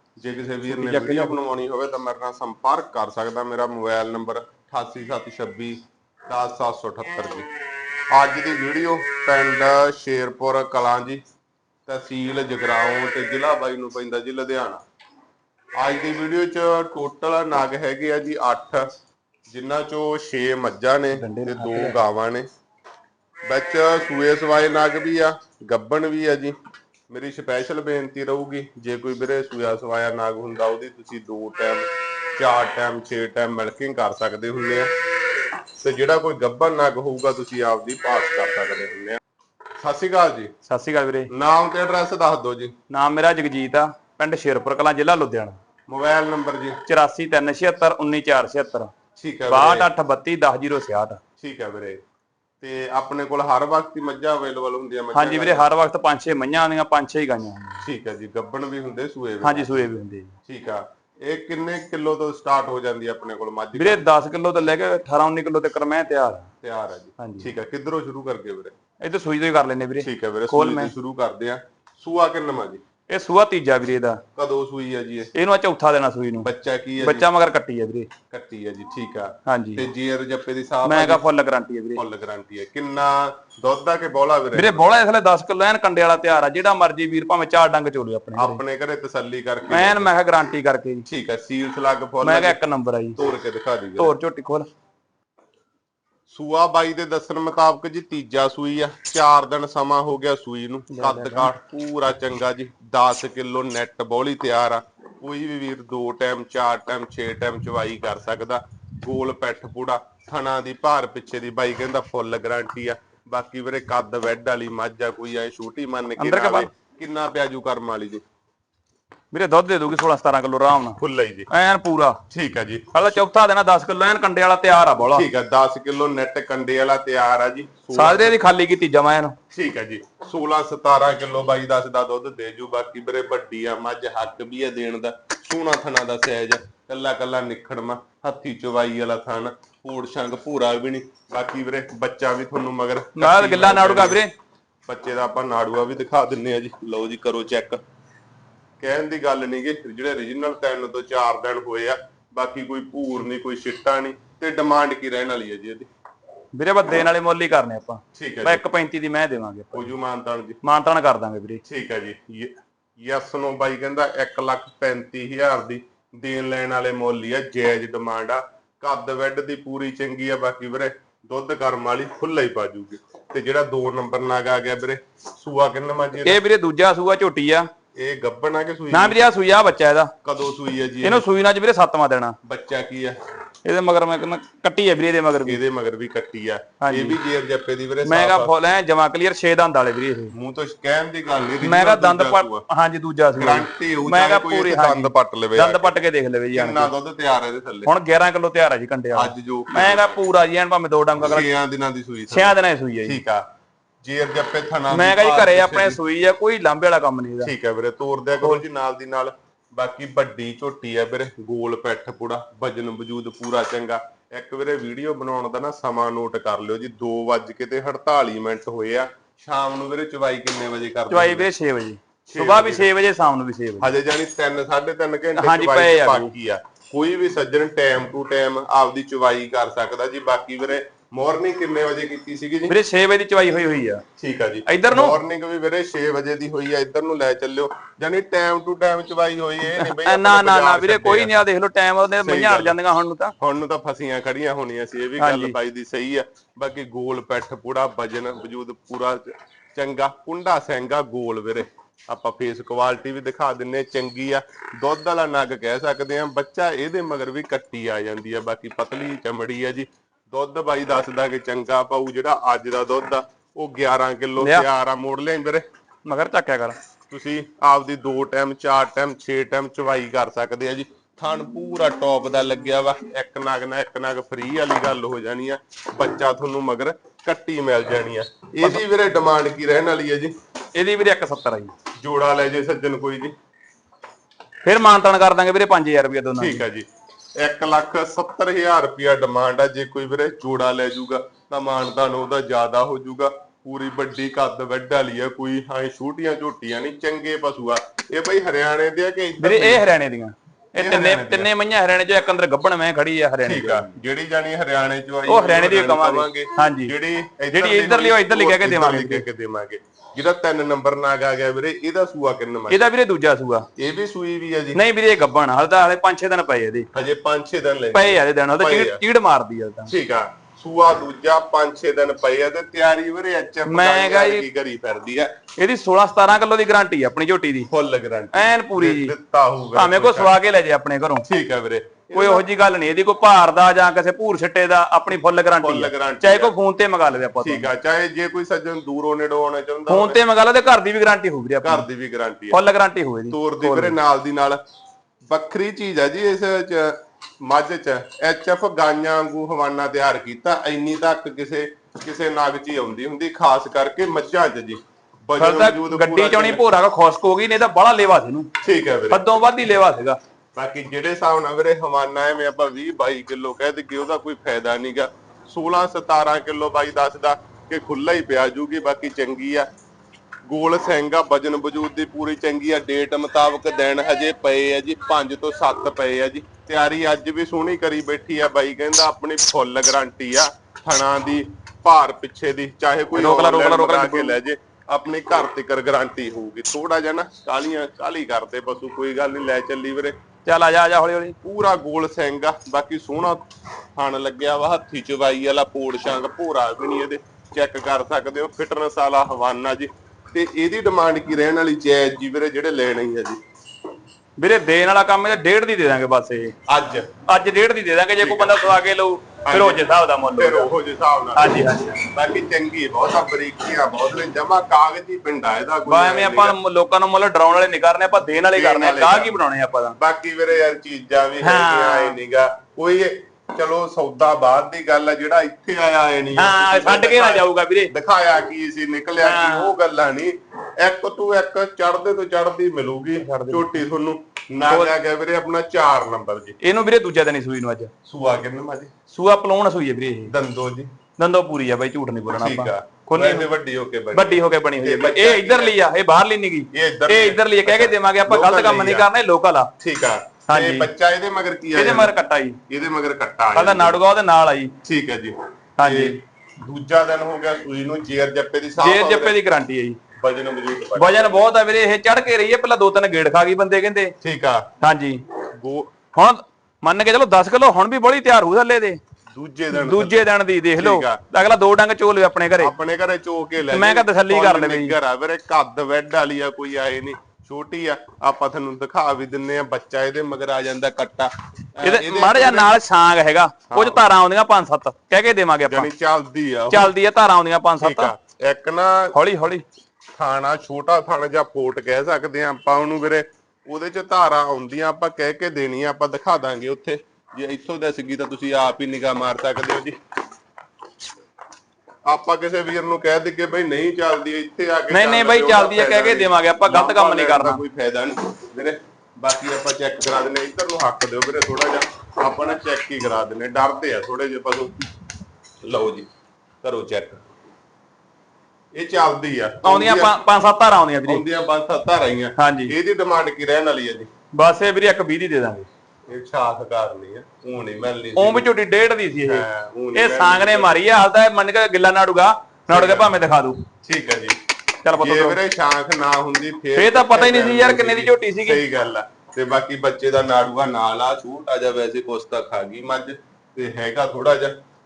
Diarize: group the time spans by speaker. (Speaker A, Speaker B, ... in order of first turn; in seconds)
Speaker A: 0.2-7.5, 8.1-11.2, 11.9-14.8, 15.8-18.9, 19.5-22.5, 23.5-26.6, 27.1-34.9, 35.8-39.2, 39.8-40.5, 41.3-42.7, 45.9-46.8, 49.2-49.9, 51.4-52.0, 52.6-55.6, 57.8-59.9, 60.5-64.1, 66.6-68.7, 70.0-72.8, 74.4-75.3, 76.4-77.3, 78.3-81.2, 82.0-84.8, 88.4-90.1, 91.1-92.6, 93.2-94.1, 96.3-118.2, 121.0-121.5, 122.3-123.2, 125.1-128.4, 129.5-144.2, 144.9-147.8, 148.8-155.9, 158.2-158.6, 159.7-160.6, 161.7-176.4, 178.0-179.2, 180.2-181.2, 182.4-183.2, 185.5-188.5, 190.3-192.6, 193.4-195.9, 196.5-197.9, 199.2-200.2, 201.2-203.4, 204.0-206.0, 207.4-221.5, 222.3-222.9, 223.8-232.8, 234.2-241.3, 242.2-242.8, 243.4-265.6, 267.1-280.3, 282.0-283.3, 286.4-286.9, 287.4-299.8, 300.8-301.5, 303.4-312.8, 313.8-314.8, 316.9-319.0, 319.9-325.3, 327.7-330.3, 331.2-332.5, 335.6-336.5, 337.4-340.2, 341.6-342.6, 343.3-344.6, 345.3-356.6, 358.6-359.2, 360.6-369.7, 370.5-390.1, 391.4-403.4, 406.7-407.1, 408.2-408.6, 409.4-411.6, 412.1-416.6, 418.5-419.4, 420.0-436.6, 438.1-438.9, 440.3-440.9, 442.3-445.8, 446.7-449.1, 449.8-452.1, 452.7-454.0, 454.8-459.4, 460.2-461.4, 464.2-464.7, 465.6-465.9, 469.3-471.2, 472.6-482.8, 483.7-484.0, 485.7-486.9, 487.8-489.2, 490.2-500.0, 502.1-514.7, 515.6-516.1, 516.6-517.2, 518.7-520.1, 521.1-524.1, 526.1-528.5, 529.2-530.8, 532.7-533.2, 533.8-534.4, 534.9-544.6
Speaker B: 0.7-1.4, 21.1-22.0, 40.7-41.3, 42.9-45.6, 46.9-48.9, 49.5-51.2, 55.1-57.9, 59.4-60.3, 63.8-66.5, 67.2-67.5, 69.0-70.9, 73.1-74.2, 75.3-76.5, 77.0-78.1, 79.5-79.9, 80.8-82.0, 84.5-88.6, 89.7-91.1, 92.2-93.2, 94.0-94.7, 100.9-101.5, 116.2-116.7, 119.3-121.0, 121.5-122.2, 122.9-125.3, 127.9-129.4, 143.2-144.3, 156.5-159.9, 160.6-161.6, 176.2-177.7, 178.9-180.1, 181.0-182.4, 183.7-185.6, 186.8-187.2, 188.1-190.3, 191.6-196.9, 197.9-201.5, 202.3-203.2, 204.9-207.5, 221.1-223.9, 225.4-226.3, 232.7-234.0, 234.7-235.2, 239.7-243.3, 245.2-245.6, 264.4-264.7, 266.1-266.8, 280.8-281.7, 284.6-286.6, 299.4-303.9, 305.3-306.9, 307.5-309.2, 312.7-313.7, 314.7-316.9, 317.9-319.9, 323.7-324.4, 325.6-327.7, 328.3-329.1, 329.8-331.2, 332.1-337.7, 339.9-341.9, 342.5-343.9, 355.4-358.5, 359.1-360.2, 383.1-384.4, 390.4-391.4, 404.4-406.5, 407.3-410.7, 411.4-412.1, 415.9-420.0, 421.4-422.2, 426.3-427.9, 429.2-429.7, 433.2-433.9, 434.7-434.9, 436.6-437.9, 439.1-440.3, 441.2-443.5, 444.1-449.7, 450.5-450.9, 451.7-452.6, 453.6-454.7, 455.8-456.2, 458.8-460.0, 461.0-464.1, 464.8-465.2, 466.1-469.0, 469.7-472.7, 473.7-475.0, 481.8-485.9, 486.7-488.1, 489.1-489.6, 504.9-507.6, 519.6-521.2, 522.4-522.8, 524.3-525.7, 528.2-533.6, 534.8-535.4, 536.8-538.6